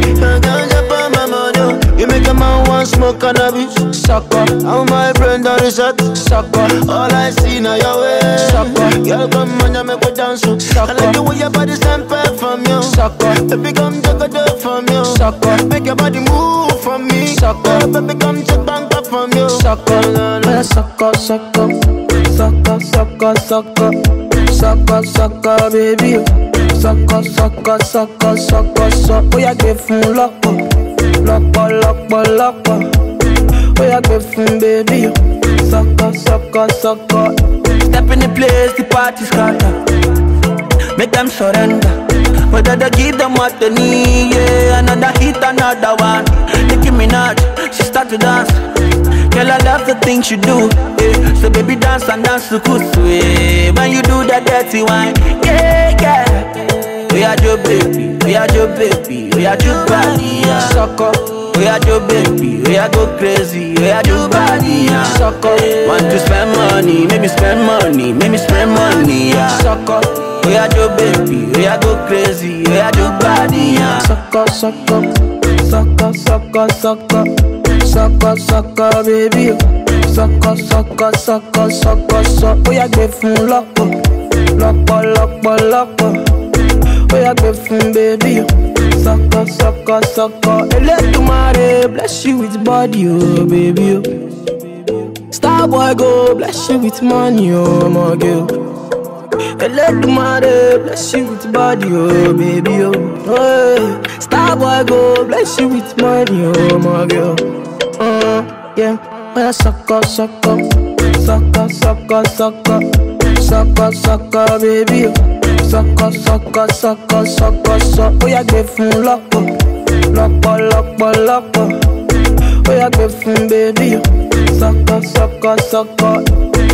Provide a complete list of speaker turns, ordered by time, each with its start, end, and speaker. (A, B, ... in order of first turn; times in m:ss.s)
0:00.2-0:03.8 A
0:04.0-0:04.5 B
0:04.6-0:06.1 A
0:06.2-0:06.6 B
0:06.8-0:20.5 A
0:08.5-0:08.9 B
0:10.7-0:11.2 B
0:12.9-0:13.3 B
0:15.1-0:15.5 B
0:17.3-0:17.9 B
0:19.6-0:32.9 B
0:33.7-0:37.3 B
0:37.8-0:39.8 C
0:41.0-0:42.0 C
0:42.5-0:48.6 C
0:49.3-1:14.1 C
1:00.7-1:01.2 B
1:05.1-1:05.9 B
1:09.6-1:10.0 B
1:14.0-1:24.0 B
1:24.5-1:26.2 B
1:27.1-1:34.1 B
1:35.2-1:38.5 B
1:39.6-1:47.4 B
1:48.0-2:01.8 B
2:02.6-2:06.2 B